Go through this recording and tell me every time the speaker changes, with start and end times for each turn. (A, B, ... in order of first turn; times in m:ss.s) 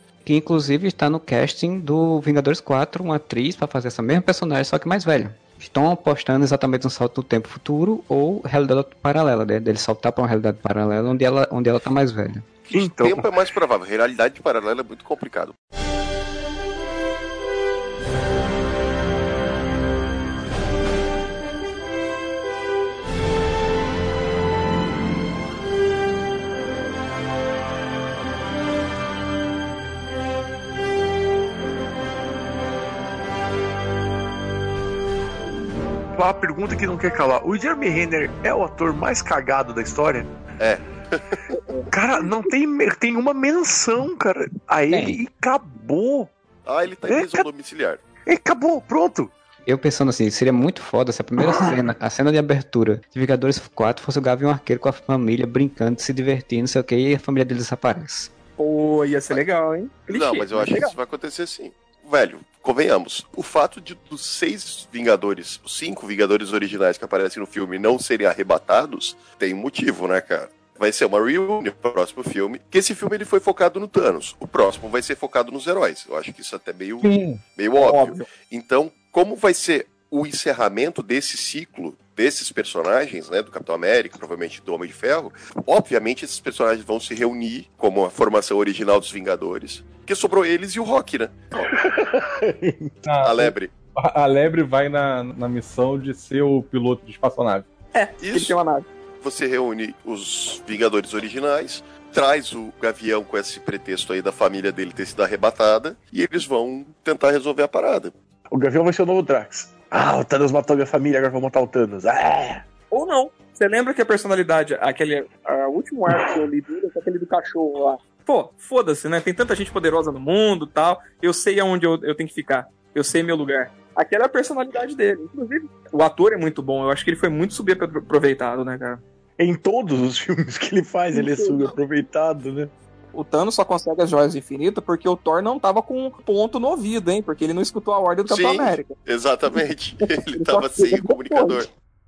0:00.2-0:12.4 A
0:12.6-0:15.6 B
0:12.7-0:13.3 C
0:36.1-0:40.3 C
0:40.6-0:41.4 B
0:41.5-0:42.5 D
0:41.9-0:46.3 C
0:44.9-0:45.2 A
0:46.7-0:48.0 B
0:47.1-0:47.5 C
0:48.3-0:49.3 C
0:49.7-0:58.3 A
0:58.6-1:01.0 D
1:00.1-1:31.4 B
1:17.0-1:18.1 E
1:31.6-1:32.9 C
1:33.0-1:37.7 E
1:33.2-1:33.7 B
1:37.9-1:38.9 D
1:38.2-1:38.6 B
1:39.2-1:48.1 B
1:48.5-1:52.6 C
1:52.9-2:09.0 D
2:09.4-2:12.7 C
2:11.1-2:11.7 D
2:13.1-2:18.9 D
2:18.3-2:21.7 B
2:20.3-2:21.7 D